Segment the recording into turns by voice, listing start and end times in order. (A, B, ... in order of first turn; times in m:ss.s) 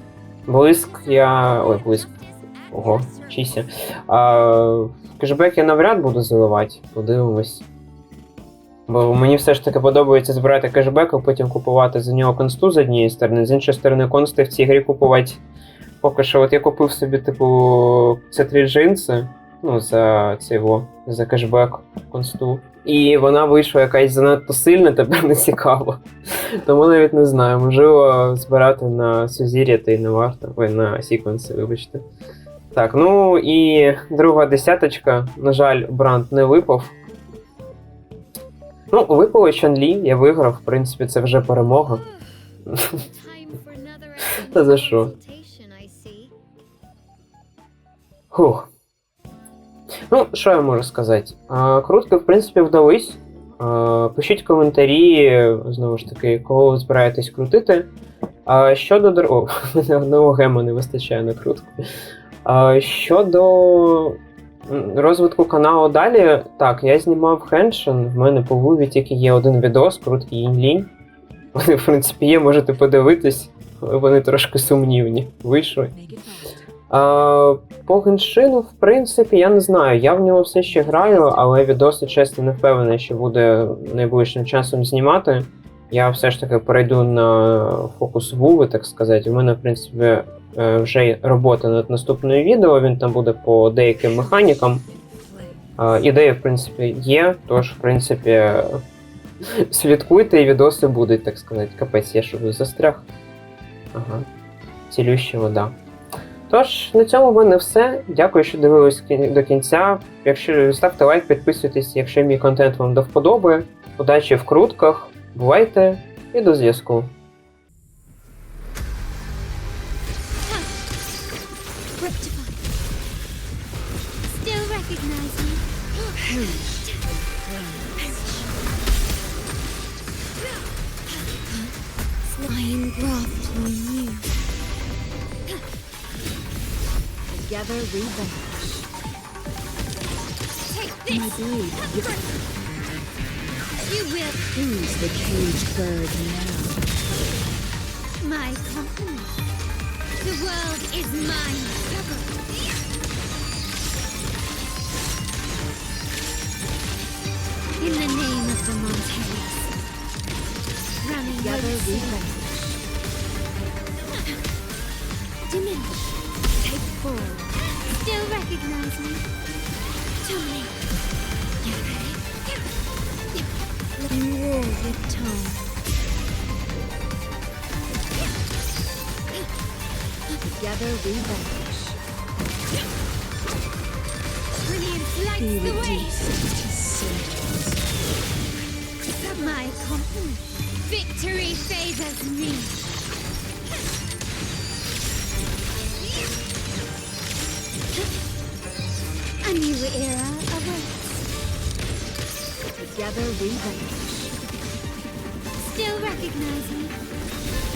0:00.5-0:02.1 A
0:00.8-0:03.6 B
0:02.7-0:07.7 A
0:08.9-0:15.4 A
0:16.0-0:32.0 A
0:32.7-0:37.0 A
0:38.9-0:42.0 A
0:42.8-0:46.3 B
0:44.4-0:45.1 A
0:48.3-0:48.7 A
0:50.1-0:57.9 A
0:58.5-1:01.7 A
1:02.4-1:10.9 A
1:11.6-1:15.9 A
1:15.9-1:16.5 C
1:16.9-1:34.8 A
1:20.7-1:21.4 C
1:34.9-1:35.7 C
1:35.8-1:38.8 A
1:39.6-1:43.1 A
1:43.9-1:44.3 A
1:44.9-1:45.8 A
1:46.5-1:57.1 A
2:00.4-2:00.7 B
2:02.0-2:02.6 B
2:04.2-2:07.2 B
2:06.2-2:08.1 C
2:11.5-2:11.7 C
2:12.3-2:13.6 C
2:12.6-2:14.3 B
2:17.3-2:18.8 C
2:20.7-2:22.3 B
2:21.1-2:22.2 C
2:23.8-2:24.5 B
2:24.5-2:26.8 C
2:28.2-2:29.4 B
2:30.2-2:32.4 B
2:37.8-2:39.7 B
2:41.0-2:42.3 B
2:41.2-2:42.8 C
2:45.5-2:46.0 B
2:46.6-2:47.5 C
2:47.9-2:49.2 B
2:50.2-2:50.8 B
2:51.6-2:52.2 B
2:54.0-2:55.3 B
2:55.2-2:55.6 C
3:00.4-3:02.0 C
3:04.5-3:06.3 B
3:05.4-3:07.8 C
3:09.2-3:12.8 B
3:09.2-3:09.8 C
3:19.4-3:21.3 B
3:22.8-3:24.3 C
3:25.6-3:27.0 B